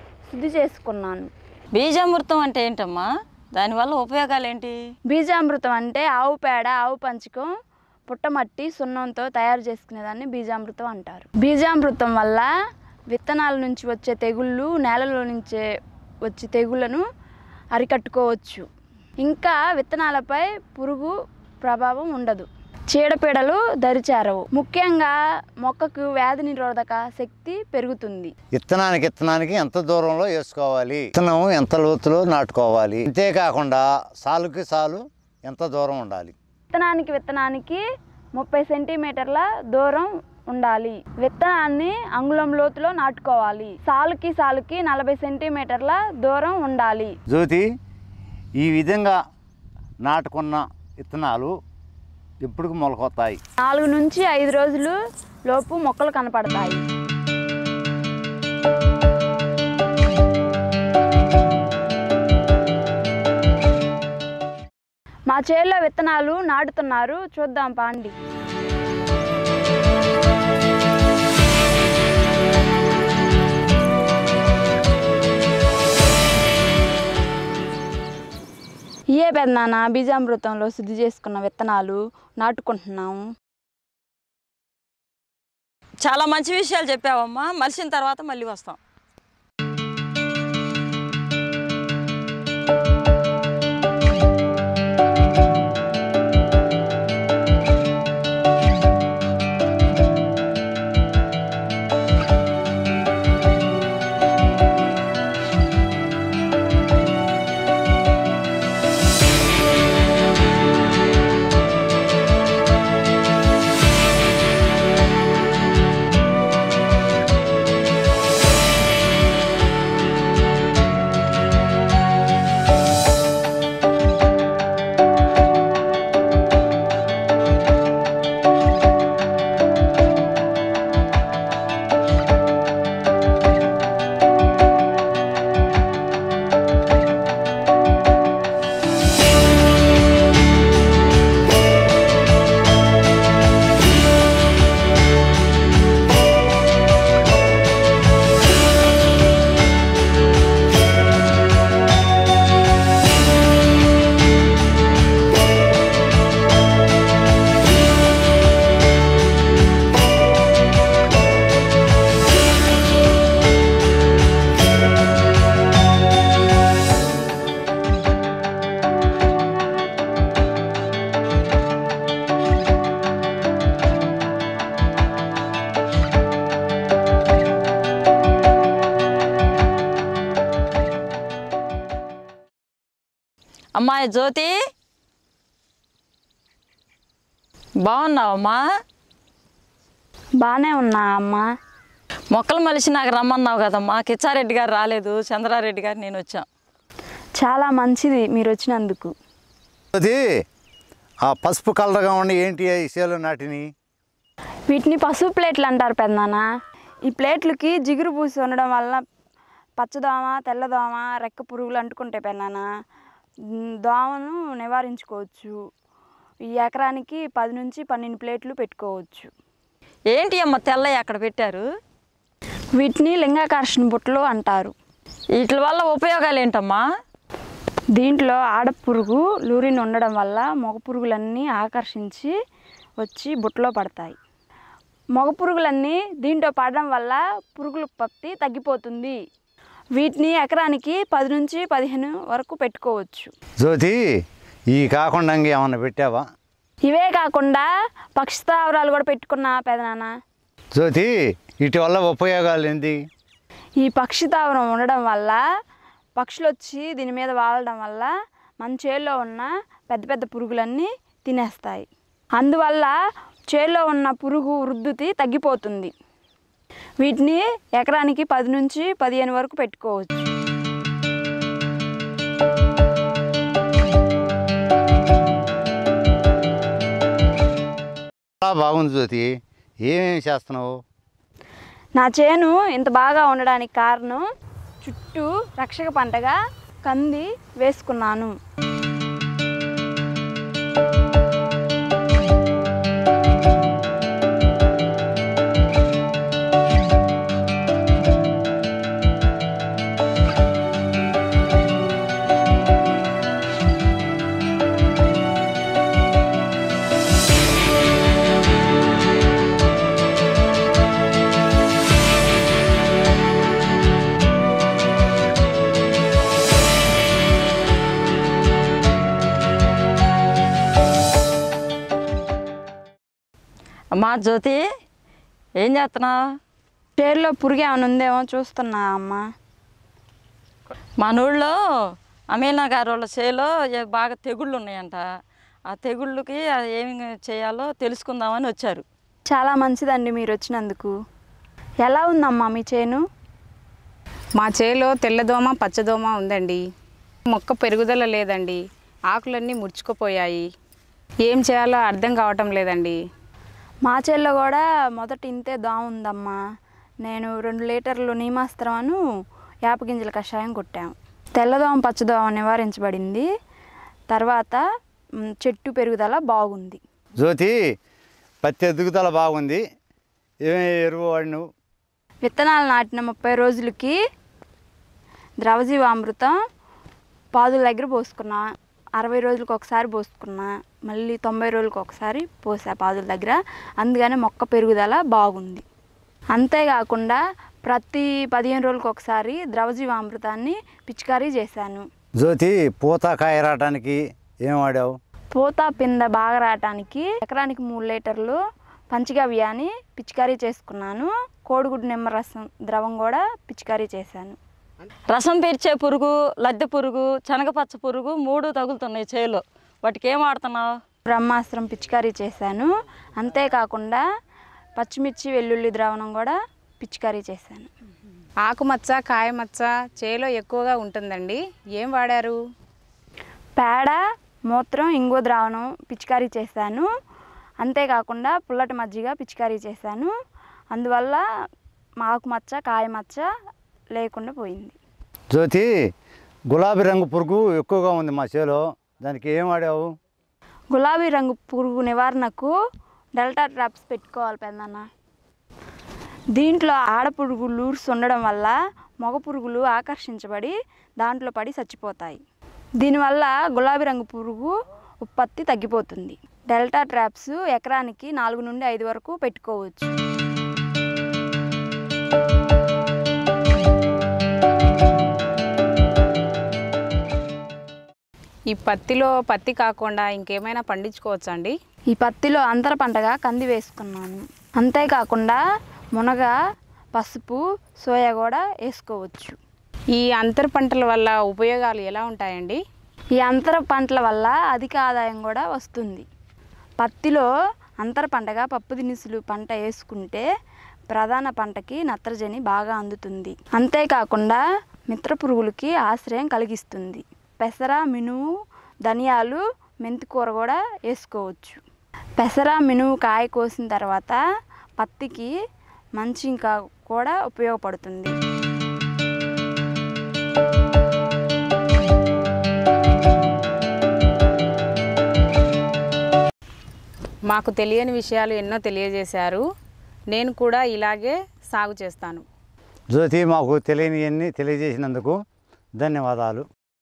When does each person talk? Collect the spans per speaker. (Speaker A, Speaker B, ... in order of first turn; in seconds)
Speaker A: 0.3-1.3, 5.1-7.5, 8.1-12.5, 13.1-15.6, 16.3-17.1, 17.8-18.7, 19.2-28.3, 36.7-37.8, 38.4-47.1, 53.6-55.0, 55.5-56.8, 65.3-68.2, 79.2-83.3, 190.4-191.4, 197.4-199.1, 204.7-206.4, 207.1-209.0, 209.8-212.7, 213.8-215.6, 216.5-219.3, 222.8-224.7, 228.0-232.3, 233.0-234.2, 235.2-239.2, 240.0-243.3, 246.9-250.1, 253.8-255.4, 256.2-262.9, 263.5-265.9, 267.0-270.3, 282.0-284.2, 284.8-288.3, 327.0-329.2, 339.3-340.9, 341.8-343.0, 353.9-356.4, 357.0-359.0, 359.7-363.3, 364.1-364.6, 365.2-366.8, 372.2-374.0, 375.4-376.4, 377.3-378.5, 379.0-385.6, 386.4-391.9, 395.3-398.4, 398.9-404.4, 411.1-414.0, 414.8-417.7, 423.6-426.9, 427.6-430.1, 430.7-431.2, 432.0-433.3, 433.9-434.8, 440.7-442.6, 443.2-444.9, 446.4-452.2, 452.8-459.9, 471.9-475.4, 475.9-476.4, 476.9-479.4, 483.2-486.1, 486.8-487.3, 487.8-490.2, 490.9-498.2, 498.9-501.6, 502.2-504.2, 504.8-505.3, 506.0-508.1
Speaker B: 1.8-4.8, 86.0-88.8, 183.8-184.5, 187.8-188.6, 192.3-196.5, 220.1-221.7, 225.4-226.8, 324.0-324.6, 325.6-326.2, 331.0-331.6, 332.3-335.0, 335.7-338.8, 405.1-410.7
Speaker C: 28.6-36.3, 47.3-47.7, 48.6-49.2, 50.0-51.5, 52.4-53.4, 199.9-200.2, 201.3-203.7, 243.6-244.0, 244.7-246.2, 250.8-253.0, 278.4-279.3, 279.8-280.7, 367.2-367.6, 368.4-369.6, 370.4-371.4, 392.2-394.9, 435.3-435.7, 436.5-439.9, 522.9-525.2, 525.8-526.5
Speaker D: 344.4-346.6, 347.3-350.5, 351.2-353.0, 418.4-422.4, 468.5-471.6, 479.9-482.6, 517.3-519.5, 520.1-522.2